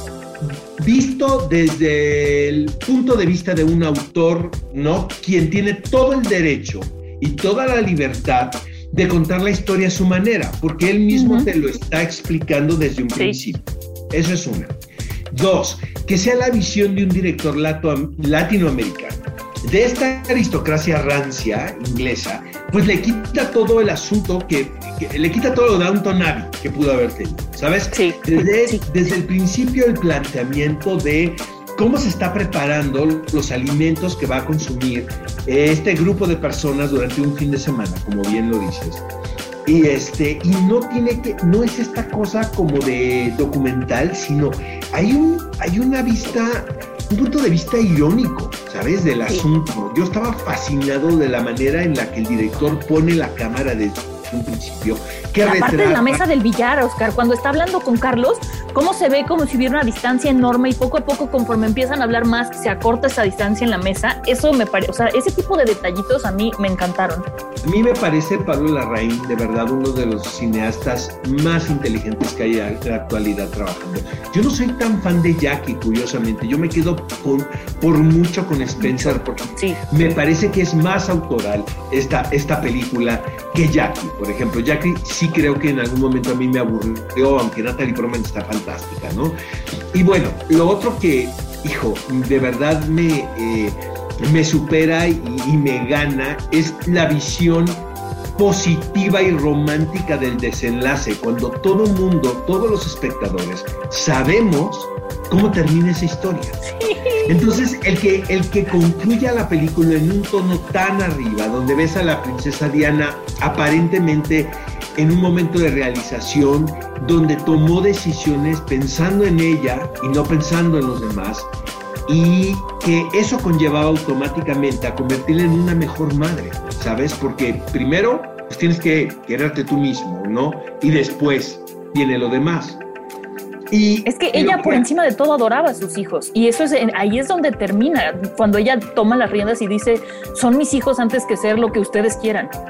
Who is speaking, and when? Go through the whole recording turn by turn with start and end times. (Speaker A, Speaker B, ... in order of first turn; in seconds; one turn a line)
Speaker A: 0.4-14.8
Speaker B: 11.1-11.5
Speaker A: 15.3-39.0
Speaker B: 27.9-28.8
Speaker A: 39.6-56.2
Speaker B: 55.4-67.2
Speaker A: 67.6-89.4
Speaker B: 78.8-79.8
Speaker A: 89.9-106.6
Speaker B: 106.7-107.6
Speaker A: 107.2-121.5
Speaker A: 122.1-132.8
Speaker A: 133.7-134.8
Speaker B: 134.1-142.5